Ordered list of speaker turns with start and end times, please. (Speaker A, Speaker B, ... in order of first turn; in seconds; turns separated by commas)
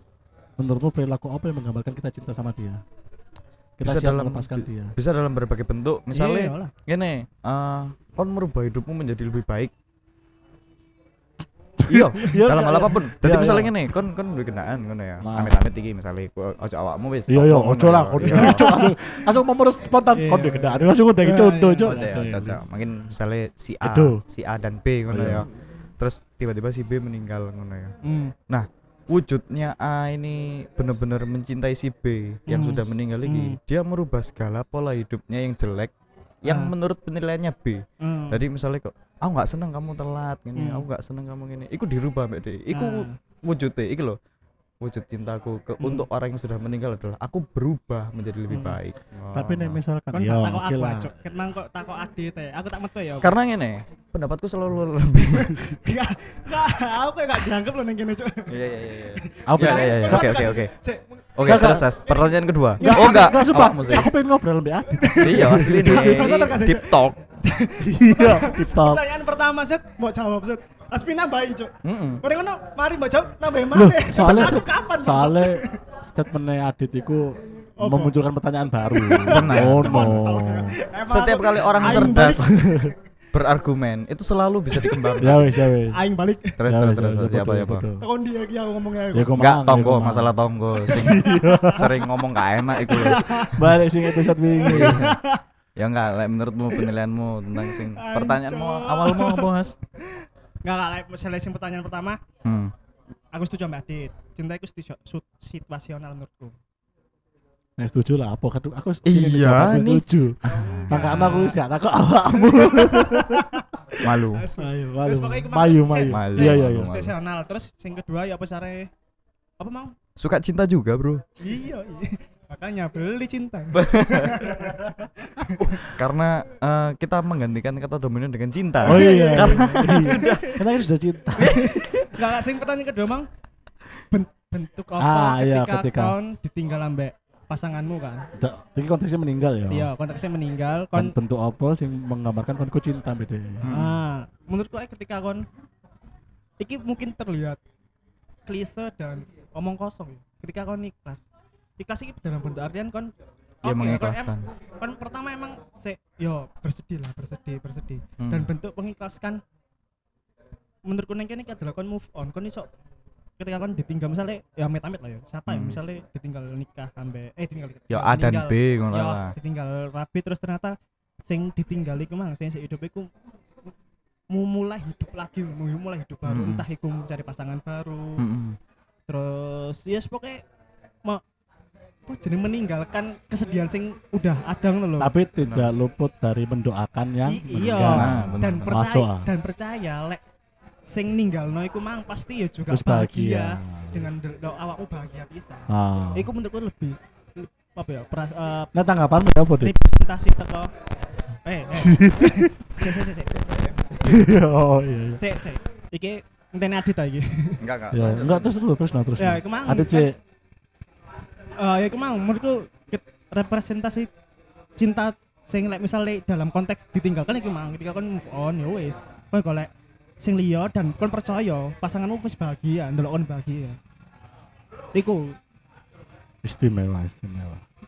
Speaker A: 0.6-2.8, Speaker A: 3.8-4.9, Speaker B: 3.8-9.7, Speaker C: 6.1-6.7, Speaker A: 11.8-13.8, Speaker B: 11.9-18.7, Speaker A: 15.2-15.6, Speaker A: 17.3-22.6, Speaker C: 18.4-19.3, Speaker C: 20.1-22.1, Speaker B: 21.8-25.5, Speaker A: 23.8-24.2, Speaker A: 25.1-25.5, Speaker B: 26.0-27.9, Speaker C: 28.0-28.4, Speaker B: 28.5-35.9, Speaker C: 32.5-33.6, Speaker B: 36.4-44.2, Speaker C: 36.5-36.7, Speaker C: 38.0-38.4, Speaker C: 40.6-40.9, Speaker C: 42.7-43.2, Speaker B: 44.8-49.8, Speaker C: 45.8-46.1, Speaker C: 48.5-48.8, Speaker A: 49.3-51.1, Speaker C: 50.1-53.3, Speaker B: 53.2-55.8, Speaker C: 55.7-64.1, Speaker B: 58.5-60.7, Speaker A: 59.5-60.2, Speaker B: 61.4-64.1, Speaker A: 61.5-61.9, Speaker A: 62.8-66.4, Speaker C: 64.9-75.8, Speaker B: 65.2-67.2, Speaker A: 67.8-69.0, Speaker B: 71.8-72.2, Speaker A: 73.7-80.8, Speaker B: 74.2-74.6, Speaker C: 77.8-78.1, Speaker C: 78.9-83.0, Speaker B: 79.3-80.2, Speaker B: 81.1-82.6, Speaker A: 81.9-82.9, Speaker B: 83.3-85.6, Speaker A: 85.2-86.0, Speaker C: 85.9-86.6, Speaker B: 86.6-87.8, Speaker A: 86.7-88.0, Speaker C: 88.0-89.4, Speaker A: 89.1-90.4, Speaker B: 89.4-93.6, Speaker C: 90.9-91.9, Speaker A: 90.9-91.9, Speaker C: 92.8-95.4, Speaker A: 93.1-95.0, Speaker B: 94.7-95.1, Speaker B: 95.8-99.8, Speaker C: 97.6-99.5, Speaker C: 100.1-102.2, Speaker B: 102.4-102.7, Speaker C: 103.3-106.5, Speaker A: 107.8-110.4, Speaker B: 109.0-110.9, Speaker A: 110.9-116.9, Speaker C: 110.9-111.6, Speaker C: 112.4-113.7, Speaker B: 114.0-114.4, Speaker C: 114.3-118.9, Speaker B: 116.1-117.1, Speaker C: 119.6-120.0, Speaker B: 120.2-121.2, Speaker C: 121.4-125.9, Speaker B: 123.7-124.7, Speaker B: 125.8-130.6, Speaker A: 128.8-131.8, Speaker C: 128.8-130.7, Speaker C: 131.4-133.3, Speaker B: 131.4-131.8, Speaker C: 134.1-138.3, Speaker A: 135.0-136.2, Speaker A: 138.4-139.9, Speaker C: 139.7-141.2, Speaker A: 140.9-143.7, Speaker B: 143.6-144.0, Speaker C: 143.7-145.4, Speaker C: 146.6-147.6, Speaker C: 148.5-151.2, Speaker C: 151.8-153.1, Speaker C: 153.6-159.4, Speaker B: 153.7-154.5, Speaker B: 158.2-158.5, Speaker C: 160.9-162.7, Speaker C: 163.4-173.1, Speaker B: 165.5-165.8, Speaker B: 167.9-169.3, Speaker C: 174.3-178.2, Speaker B: 176.3-176.7, Speaker B: 178.2-178.6, Speaker C: 179.1-180.4, Speaker C: 182.1-185.1, Speaker A: 185.0-189.3, Speaker B: 185.4-185.7, Speaker C: 187.3-190.2, Speaker B: 187.8-188.8, Speaker C: 190.9-198.7, Speaker A: 192.7-194.1, Speaker A: 195.7-196.3, Speaker A: 198.7-199.8, Speaker C: 199.6-200.7, Speaker C: 201.4-203.3, Speaker A: 201.8-203.0, Speaker B: 203.3-204.2, Speaker A: 204.0-205.2, Speaker C: 205.2-207.6, Speaker B: 207.6-208.5, Speaker A: 207.9-210.2, Speaker C: 209.2-210.1, Speaker C: 211.6-214.1, Speaker C: 214.8-219.7, Speaker C: 220.2-223.8, Speaker C: 224.9-225.4, Speaker A: 226.4-227.6